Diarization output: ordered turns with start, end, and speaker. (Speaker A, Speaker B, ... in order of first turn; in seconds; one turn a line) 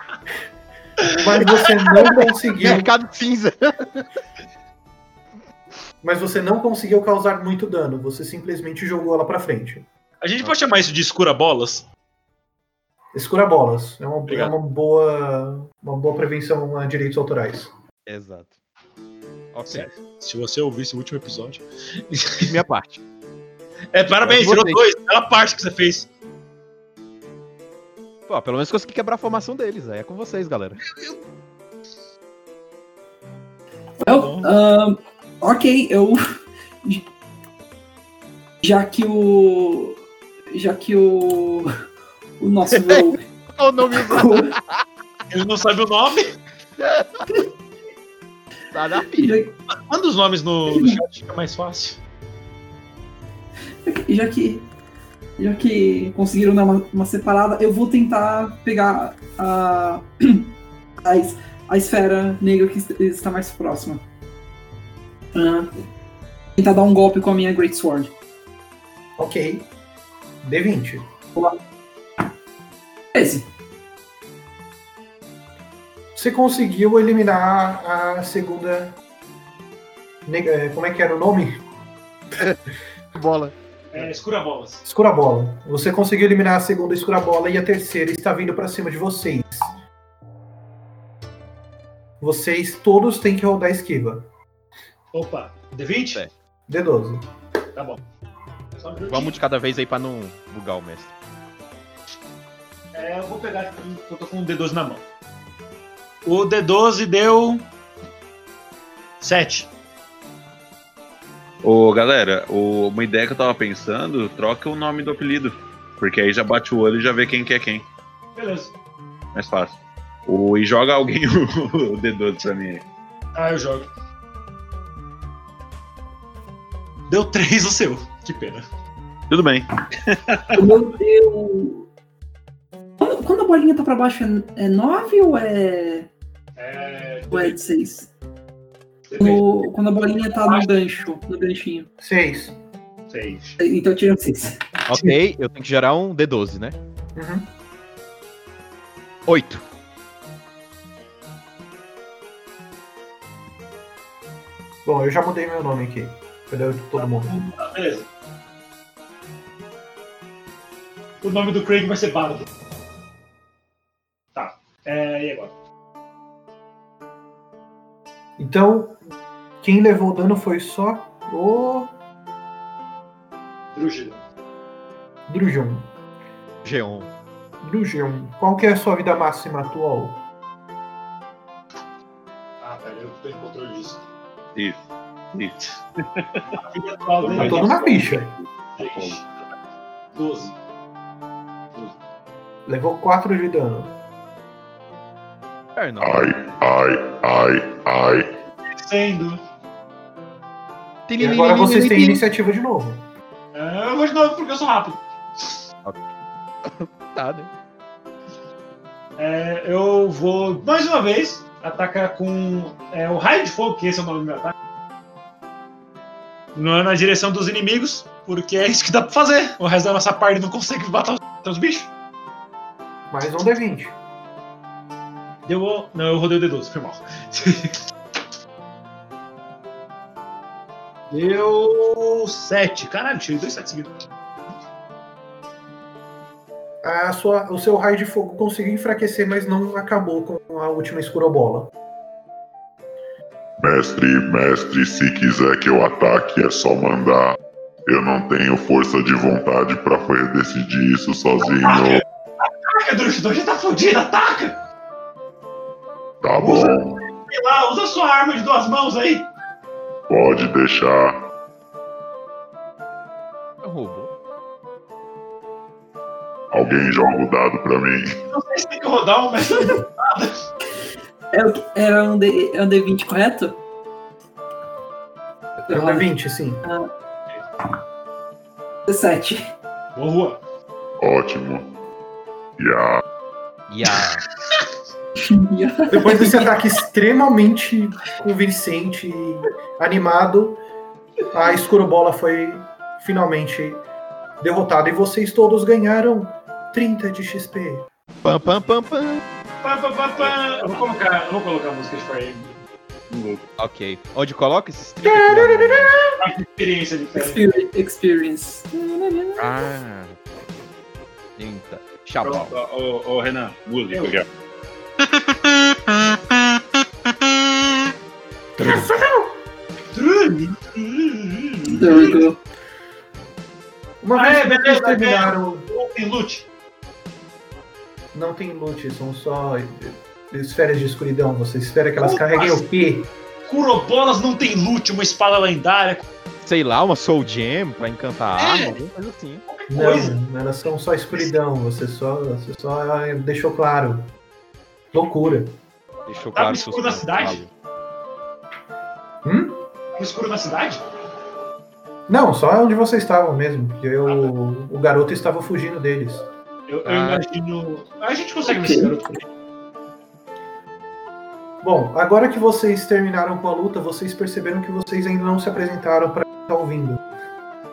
Speaker A: 1.0-2.9
Speaker B: 2.6-4.0
Speaker A: 6.0-9.8
Speaker C: 10.2-11.8
Speaker A: 13.1-17.7
Speaker C: 14.3-14.5
Speaker B: 18.1-18.5
Speaker B: 19.5-19.9
Speaker C: 19.7-22.5
Speaker B: 22.4-23.0
Speaker C: 23.9-26.1
Speaker B: 24.2-24.8
Speaker B: 28.3-30.9
Speaker D: 34.0-36.2
Speaker C: 34.0-34.5
Speaker D: 38.6-40.0
Speaker D: 40.5-41.7
Speaker D: 42.4-43.2
Speaker B: 42.8-44.8
Speaker D: 43.9-44.5
Speaker C: 45.3-46.3
Speaker B: 46.8-47.2
Speaker B: 48.7-49.4
Speaker D: 49.2-49.5
Speaker C: 49.9-52.0
Speaker D: 50.7-51.0
Speaker D: 53.8-54.7
Speaker D: 55.4-60.5
Speaker D: 61.0-64.0
Speaker D: 65.3-65.7
Speaker D: 66.6-68.1
Speaker A: 69.2-69.7
Speaker A: 70.4-71.1
Speaker D: 73.1-73.5
Speaker A: 76.1-79.0
Speaker A: 80.2-81.6
Speaker B: 83.1-83.5
Speaker C: 83.9-84.8
Speaker A: 84.8-89.7
Speaker A: 92.2-94.3
Speaker C: 95.1-96.2
Speaker A: 96.7-97.3
Speaker C: 97.7-98.0
Speaker C: 98.8-99.3
Speaker B: 99.1-101.1
Speaker C: 102.9-105.0
Speaker C: 106.2-107.7
Speaker C: 109.2-109.7
Speaker E: 111.6-117.8
Speaker C: 118.3-118.7
Speaker E: 119.3-122.8
Speaker C: 123.3-123.9
Speaker C: 127.1-128.6
Speaker E: 129.3-130.5
Speaker D: 130.5-131.9
Speaker D: 133.0-136.1
Speaker C: 136.6-137.6
Speaker D: 137.3-138.1
Speaker C: 139.1-139.4
Speaker D: 139.2-141.9
Speaker C: 140.2-140.7
Speaker A: 142.0-142.6
Speaker C: 143.1-143.6
Speaker D: 143.6-145.1
Speaker B: 144.9-146.8
Speaker A: 147.2-147.5
Speaker B: 149.3-149.6
Speaker A: 154.8-157.3
Speaker C: 157.0-158.1
Speaker C: 161.2-162.5
Speaker C: 164.3-165.5
Speaker A: 168.4-169.0
Speaker A: 169.6-171.9
Speaker C: 173.7-174.2
Speaker A: 175.3-175.9
Speaker B: 176.6-177.1
Speaker A: 177.6-180.2
Speaker C: 182.6-184.0
Speaker E: 184.5-184.8
Speaker E: 185.3-186.6
Speaker C: 186.6-187.8
Speaker E: 187.2-189.2
Speaker A: 187.3-188.3
Speaker C: 188.8-189.3
Speaker C: 190.1-190.5
Speaker A: 192.7-193.9
Speaker B: 195.8-196.3
Speaker F: 196.0-198.3
Speaker C: 198.7-199.4
Speaker B: 201.1-202.2
Speaker A: 201.2-203.1
Speaker C: 203.5-205.6
Speaker B: 206.6-207.5
Speaker C: 209.2-214.5
Speaker C: 216.5-221.9
Speaker A: 223.1-223.9
Speaker C: 225.4-227.8
Speaker C: 231.1-233.9
Speaker A: 236.8-241.7
Speaker F: 243.6-252.0
Speaker C: 251.4-254.6
Speaker F: 256.2-257.0
Speaker C: 256.4-259.3
Speaker F: 260.1-261.2
Speaker B: 263.6-264.1
Speaker F: 266.5-268.2
Speaker C: 268.3-270.4
Speaker D: 271.3-273.6
Speaker D: 275.6-276.1
Speaker A: 275.7-276.6
Speaker D: 276.6-276.9
Speaker D: 278.9-279.5
Speaker C: 279.9-280.4
Speaker F: 281.0-281.7
Speaker F: 282.6-283.0
Speaker B: 283.7-284.2
Speaker D: 285.2-286.5
Speaker A: 285.9-290.6
Speaker A: 291.3-293.8
Speaker A: 294.4-297.9
Speaker B: 298.2-299.2
Speaker C: 299.6-302.6
Speaker E: 303.1-303.4
Speaker B: 303.6-305.9
Speaker A: 305.0-306.1
Speaker C: 306.2-307.4
Speaker D: 307.1-309.4
Speaker B: 309.4-310.2
Speaker B: 311.4-312.5
Speaker E: 312.2-314.2
Speaker A: 318.6-319.3
Speaker B: 318.6-318.9
Speaker C: 319.9-322.2
Speaker D: 321.6-322.4
Speaker A: 324.0-325.6
Speaker C: 324.1-326.4
Speaker A: 328.1-333.1
Speaker C: 332.0-332.6
Speaker C: 333.4-336.0
Speaker B: 336.4-339.4
Speaker C: 338.4-338.8
Speaker C: 339.5-340.2
Speaker A: 339.7-344.1
Speaker A: 344.9-345.6
Speaker B: 346.1-347.5
Speaker C: 346.3-347.4
Speaker A: 349.2-349.6
Speaker C: 349.9-350.8
Speaker A: 352.1-356.2
Speaker C: 354.0-354.3
Speaker C: 356.7-359.2
Speaker B: 356.8-357.2
Speaker D: 358.5-358.9
Speaker A: 361.6-367.0